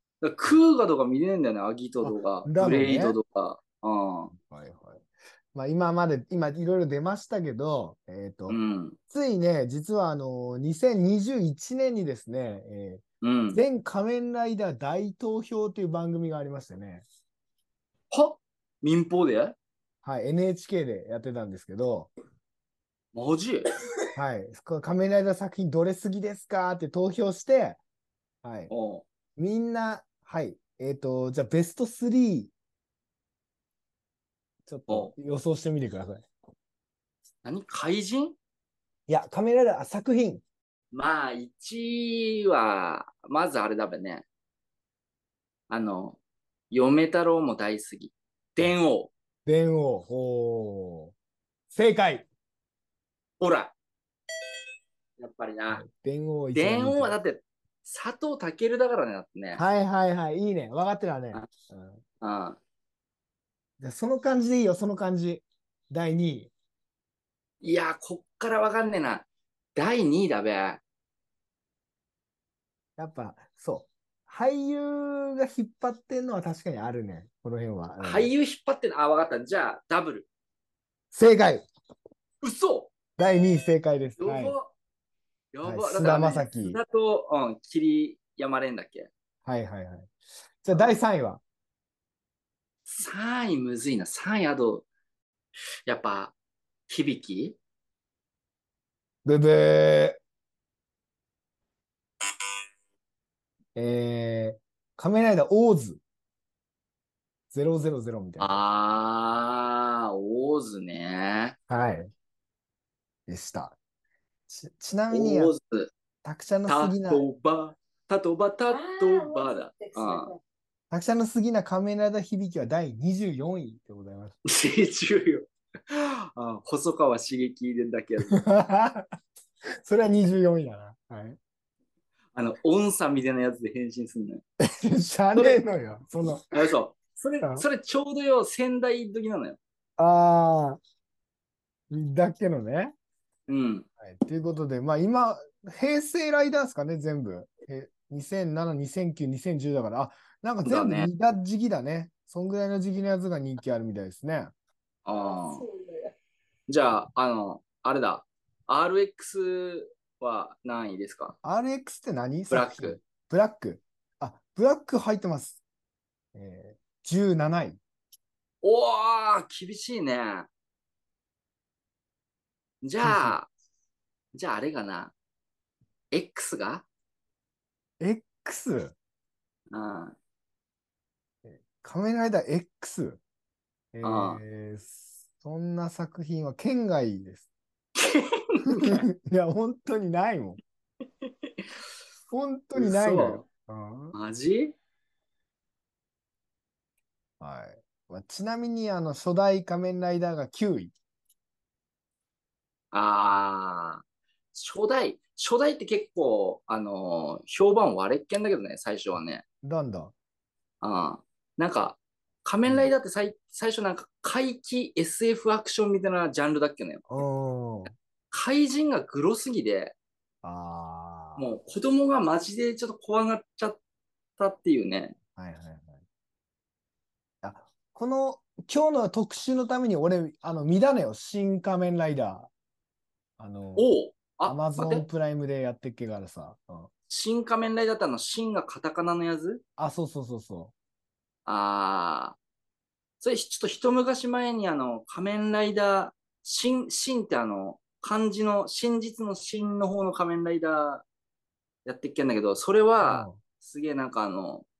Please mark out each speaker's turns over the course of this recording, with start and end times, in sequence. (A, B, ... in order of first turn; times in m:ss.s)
0:00.2-0:04.3 A
0:02.0-0:03.2 B
0:04.3-0:05.0 B
0:05.5-0:08.6 B
0:08.5-0:09.0 A
0:09.1-0:17.0 B
0:13.2-0:13.6 A
0:18.1-0:19.6 A
0:20.0-0:22.1 B
0:23.1-0:23.7 A
0:24.2-0:27.8 B
0:28.4-0:28.7 B
0:28.7-0:29.0 A
0:29.4-0:32.5 B
0:34.6-0:36.3 B
0:37.4-0:38.4 A
0:39.1-0:40.4 B
0:40.9-0:44.2 A
0:45.7-0:46.2 A
0:46.7-0:49.1 A
0:49.4-0:51.1 B
0:51.7-0:52.2 B
0:53.4-0:53.7 A
0:55.2-0:55.8 A
0:55.7-0:57.2 B
0:56.5-0:59.6 A
0:59.5-1:02.0 B
1:02.2-1:02.6 A
1:03.8-1:06.5 B
1:07.6-1:10.8 A
1:13.0-1:18.3 B
1:18.0-1:20.3 A
1:21.1-1:21.6 B
1:22.4-1:22.9 A
1:23.2-1:24.6 B
1:24.2-1:24.7 A
1:25.5-1:29.1 A
1:25.6-1:26.8 B
1:29.4-1:30.1 B
1:30.6-1:31.4 B
1:32.8-1:34.8 A
1:35.8-1:36.3 A
1:36.9-1:37.6 A
1:39.2-1:40.2 B
1:43.8-1:46.0 B
1:47.5-1:48.6 B
1:48.4-1:51.6 A
1:51.7-1:52.1 B
1:53.3-1:53.8 B
1:54.5-1:55.5 B
1:55.1-1:55.9 A
1:56.2-1:57.2 B
1:56.7-2:00.3 A
1:58.7-2:00.4 C
2:00.9-2:04.3 B
2:04.4-2:08.4 A
2:08.2-2:09.1 B
2:09.8-2:11.4 B
2:12.3-2:14.4 A
2:14.6-2:16.5 B
2:16.5-2:19.6 A
2:20.0-2:20.8 B
2:21.9-2:22.9 B
2:23.5-2:23.9 A
2:24.0-2:34.5 B
2:30.6-2:31.1 A
2:35.0-2:35.6 A
2:35.5-2:36.0 C
2:36.7-2:41.4 A
2:41.4-2:45.6 B
2:42.5-2:43.0 A
2:46.3-2:47.8 B
2:48.6-2:50.5 A
2:52.8-2:53.5 A
2:53.0-2:53.4 B
2:54.3-2:55.1 A
2:56.1-2:56.8 A
2:58.0-2:58.9 B
2:59.7-3:00.2 A
3:01.4-3:03.2 B
3:03.9-3:07.4 B
3:04.0-3:04.4 A
3:08.0-3:09.0 A
3:08.7-3:10.6 B
3:11.2-3:11.7 A
3:12.3-3:14.2 B
3:12.8-3:13.4 A
3:14.1-3:14.7 A
3:17.4-3:20.9 B
3:22.9-3:24.0 A
3:24.5-3:29.4 A
3:29.6-3:30.1 B
3:30.8-3:37.2 A
3:37.1-3:37.9 B
3:38.3-3:39.9 A
3:40.4-3:41.5 B
3:41.4-3:43.8 A
3:44.4-3:45.2 A
3:45.4-3:46.0 B
3:47.4-3:52.5 B
3:53.4-3:53.9 B
3:53.8-3:55.0 A
3:54.4-3:56.9 B
3:57.1-3:59.6 A
3:59.8-4:00.7 B
4:01.4-4:02.4 A
4:03.2-4:11.0 A
4:11.8-4:14.6 A
4:13.0-4:13.4 B